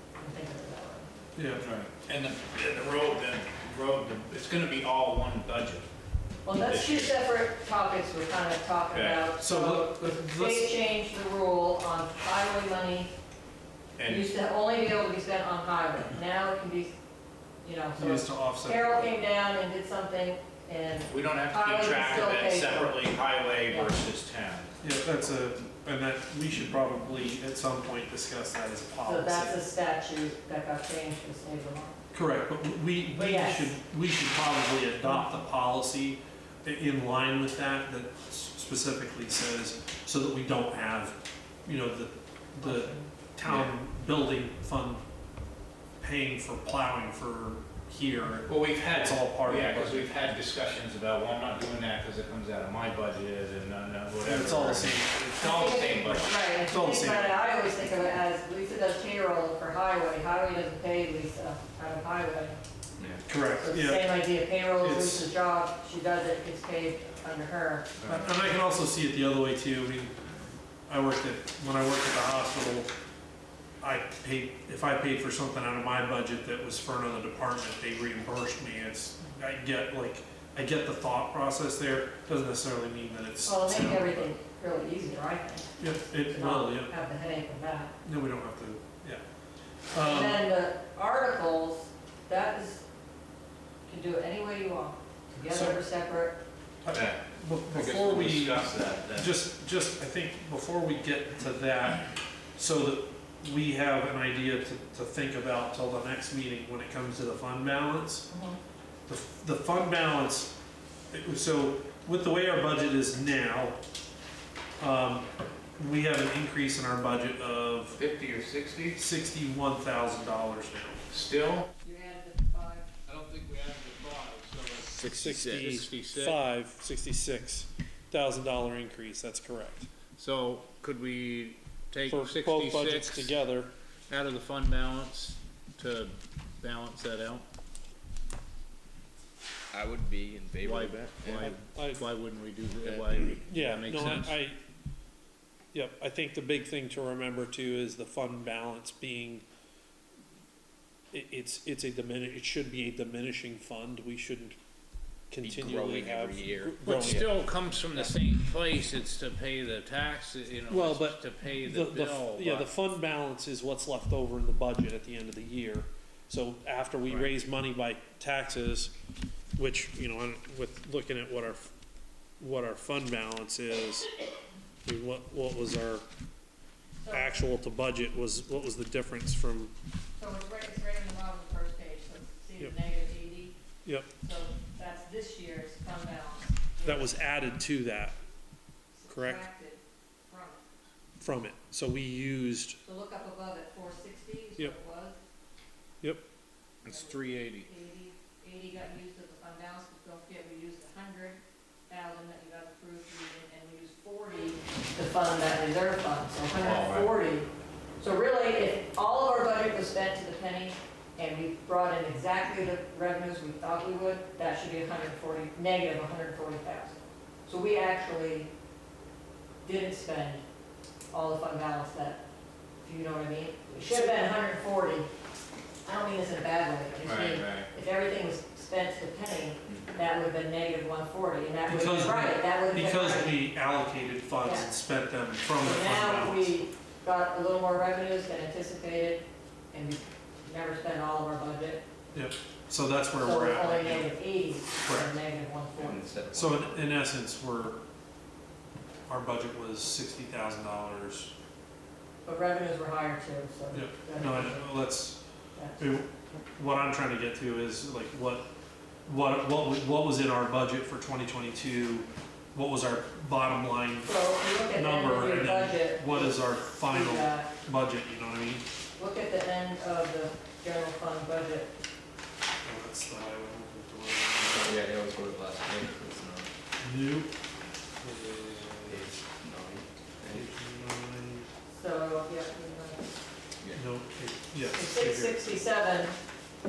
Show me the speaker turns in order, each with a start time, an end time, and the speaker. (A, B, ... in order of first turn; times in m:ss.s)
0:00.2-0:01.1 A
0:01.4-0:01.6 B
0:01.6-0:05.9 C
0:06.4-0:13.1 A
0:06.5-0:07.2 C
0:08.9-0:09.2 C
0:09.4-0:10.7 B
0:14.0-0:14.3 C
0:14.1-0:16.9 A
0:17.6-0:23.1 A
0:18.0-0:19.1 B
0:21.1-0:24.8 C
0:23.6-0:23.9 A
0:24.8-0:29.6 B
0:29.0-0:32.0 A
0:32.1-0:45.0 B
0:33.1-0:33.8 A
0:42.6-0:43.1 A
0:43.4-0:43.7 C
0:46.0-0:50.1 B
0:48.5-0:56.3 C
0:54.2-0:57.4 B
0:55.4-1:02.6 A
1:03.0-1:03.2 D
1:03.3-1:04.2 B
1:03.6-1:08.2 A
1:04.8-1:05.3 B
1:08.0-1:08.3 C
1:08.1-1:10.2 B
1:10.9-1:12.9 B
1:13.8-1:24.2 B
1:23.5-1:27.9 A
1:25.8-1:26.9 B
1:28.0-1:29.2 B
1:29.9-1:30.4 B
1:30.0-1:32.8 A
1:33.8-1:36.4 A
1:35.4-1:35.8 B
1:36.8-1:48.3 B
1:36.9-1:37.2 C
1:37.7-1:39.3 C
1:48.3-1:48.6 A
1:49.1-1:50.5 B
1:51.1-1:53.8 B
1:54.8-1:58.0 B
1:58.0-1:59.0 C
1:59.0-2:01.1 B
2:01.1-2:01.7 C
2:01.8-2:02.9 A
2:03.1-2:06.4 C
2:05.0-2:05.8 D
2:05.0-2:09.9 B
2:10.2-2:13.3 C
2:12.1-2:13.7 B
2:14.1-2:17.4 C
2:19.7-2:21.5 D
2:20.6-2:24.4 C
2:21.4-2:22.0 B
2:22.8-2:23.3 D
2:23.4-2:24.6 B
2:25.7-2:29.4 B
2:31.1-2:34.6 B
2:35.3-2:37.4 B
2:35.4-2:37.3 D
2:36.8-2:42.7 C
2:40.7-2:49.0 B
2:49.6-2:51.7 B
2:52.4-2:54.1 B
2:54.8-2:56.0 B
2:57.0-2:57.4 A
2:57.1-2:59.7 B
3:00.2-3:03.6 A
3:04.2-3:07.3 A
3:06.8-3:08.2 B
3:08.9-3:10.6 A
3:09.1-3:09.4 B
3:11.2-3:12.8 B
3:12.8-3:15.2 A
3:16.8-3:17.7 C
3:16.9-3:27.5 A
3:26.6-3:27.1 C
3:28.0-3:38.5 A
3:39.6-3:40.4 A
3:41.1-3:42.2 A
3:42.8-3:45.1 A
3:45.8-3:53.4 A
3:47.0-3:47.7 C
3:51.7-3:56.6 B
3:54.4-3:54.7 A
3:55.6-4:01.8 A
4:02.1-4:04.1 B
4:03.2-4:06.1 A
4:04.8-4:05.1 B
4:05.8-4:06.9 D
4:06.3-4:07.8 B
4:09.1-4:11.3 B
4:12.2-4:14.8 A
4:13.7-4:15.2 B
4:15.6-4:15.9 A
4:15.8-4:18.5 B
4:19.1-4:28.6 B
4:24.0-4:27.5 A
4:29.0-4:31.7 A
4:32.6-4:34.8 B
4:34.4-4:36.5 D
4:36.8-4:37.3 B
4:38.0-4:39.1 B
4:38.9-4:40.5 D
4:40.3-4:41.5 B
4:41.7-4:43.1 A
4:43.8-4:45.6 B
4:44.7-4:46.2 A